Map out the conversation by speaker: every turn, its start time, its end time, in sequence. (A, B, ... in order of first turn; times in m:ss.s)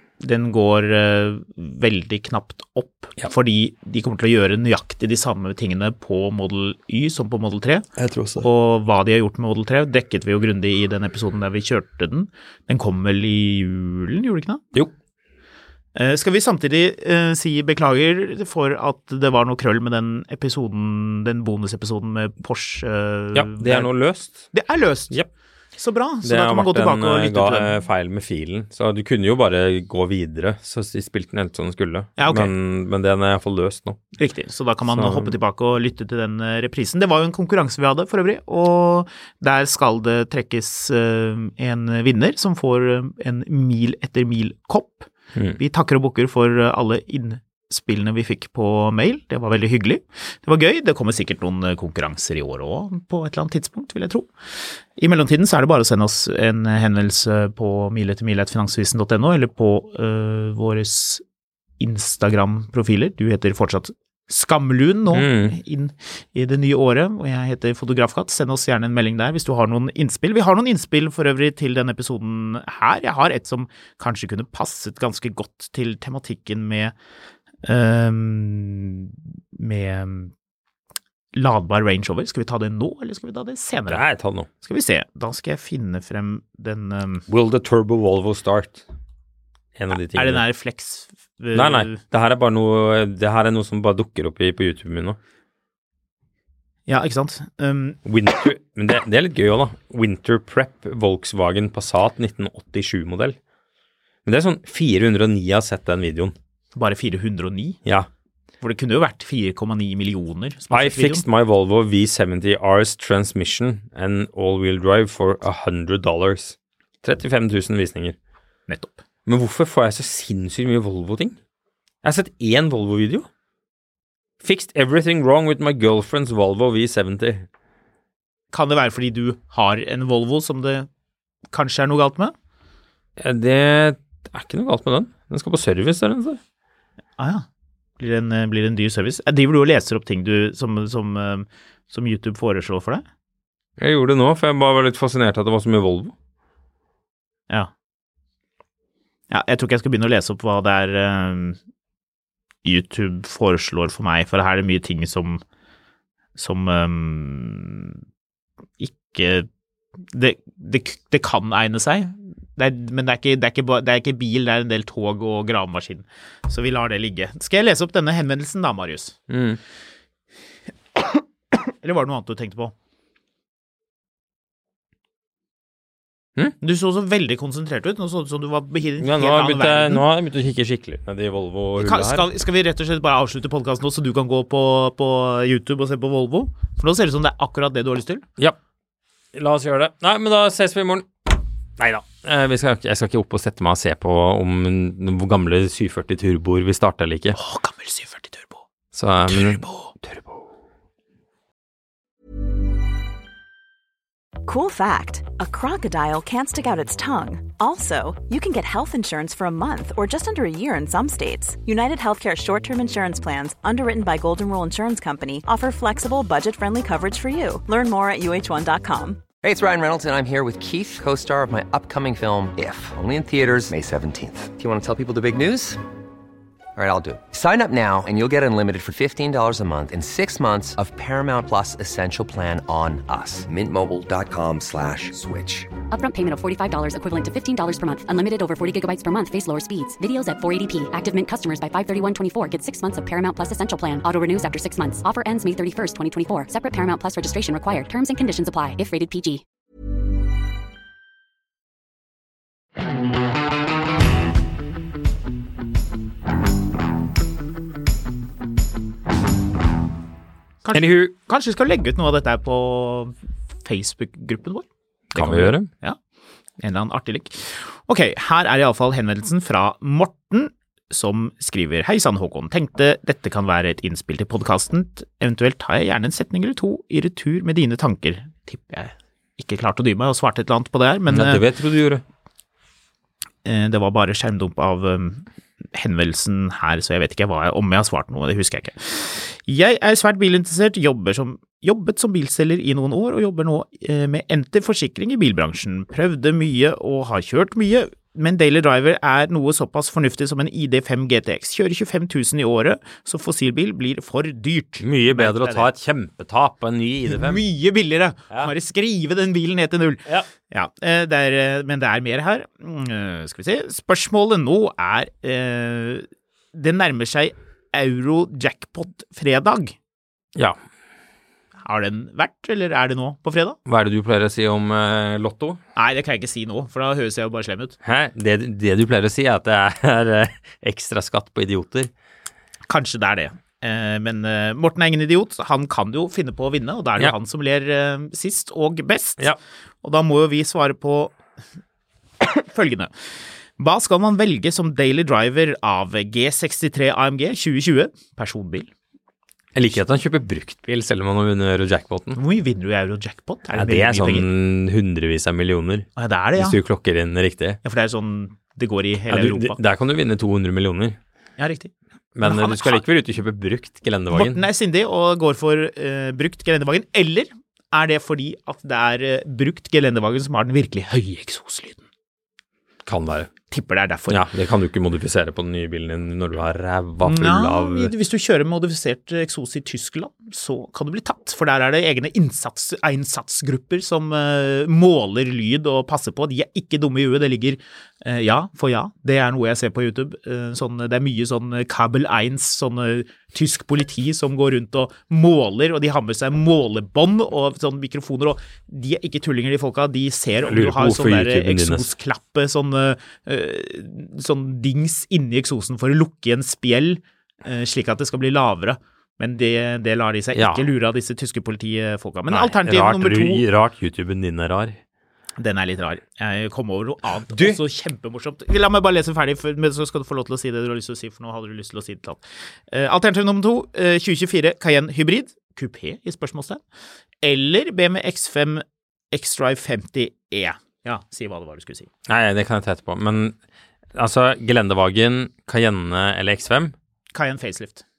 0:00.2-0:07.9 A
0:08.0-0:08.5 B
0:08.4-0:14.6 A
0:15.9-0:23.9 A
0:23.3-0:24.5 B
0:24.5-0:25.2 A
0:25.8-0:27.8 A
0:26.2-0:34.0 B
0:32.2-0:32.5 A
0:34.2-1:01.2 A
0:34.8-0:35.4 B
1:01.8-1:16.9 A
1:05.1-1:05.6 B
1:17.6-1:20.3 A
1:21.3-1:24.0 A
1:23.9-1:24.5 B
1:24.6-1:27.2 A
1:27.3-1:28.8 B
1:29.8-1:30.4 B
1:30.1-1:32.0 A
1:31.5-1:35.2 B
1:36.9-1:38.0 A
1:38.0-1:43.4 B
1:44.2-1:46.3 B
1:46.7-1:47.8 A
1:48.6-1:51.2 A
1:50.7-1:58.2 B
1:58.7-1:59.0 A
1:59.2-2:01.4 B
2:02.0-2:03.3 B
2:04.4-2:07.5 B
2:08.5-2:10.9 A
2:11.5-2:12.3 A
2:13.2-2:16.4 B
2:17.2-2:17.4 A
2:18.0-2:23.0 A
2:23.8-2:26.1 B
2:29.3-2:31.6 A
2:32.6-2:35.4 A
2:36.4-2:38.0 A
2:38.8-2:39.5 A
2:40.1-2:49.2 A
2:49.3-2:49.6 B
2:51.0-2:52.7 A
2:56.6-3:00.0 A
2:59.0-3:02.3 B
3:01.8-3:08.2 A
3:09.3-3:17.4 B
3:17.3-3:18.6 A
3:18.9-3:20.4 B
3:19.3-3:19.9 A
3:24.4-3:39.2 C
3:39.4-3:45.8 D
3:46.8-3:55.6 D
3:55.9-4:09.4 E
4:20.6-4:26.0 A
4:20.7-4:21.1 B
4:25.1-4:25.7 B
4:26.6-4:41.4 A
4:41.1-4:42.0 B
4:43.4-5:05.7 A
5:04.8-5:07.4 B
5:07.1-5:19.8 A
5:21.6-5:23.6 A
5:23.6-5:25.6 B
5:25.8-5:27.8 A
5:27.8-5:31.9 B
5:32.7-5:39.3 A
5:39.8-5:41.2 A
5:42.2-5:42.9 A
5:43.6-5:48.7 A
5:49.5-5:52.2 B
5:52.1-5:54.3 A
5:53.5-5:57.6 B
5:56.0-5:56.6 A
5:57.6-5:59.6 A
5:59.1-6:01.0 B
6:01.4-6:01.7 A
6:02.1-6:04.4 B
6:02.2-6:02.8 A
6:04.1-6:11.8 A
6:12.8-6:13.3 B
6:13.5-6:14.2 A
6:14.1-6:17.9 B
6:17.0-6:53.4 A
6:40.4-6:41.9 B
6:50.3-6:50.6 B
6:52.3-6:54.8 B
6:55.4-7:06.6 A
6:57.3-6:57.6 B
7:07.2-7:11.9 A
7:12.0-7:13.4 B
7:13.9-7:16.7 B
7:17.1-7:17.8 A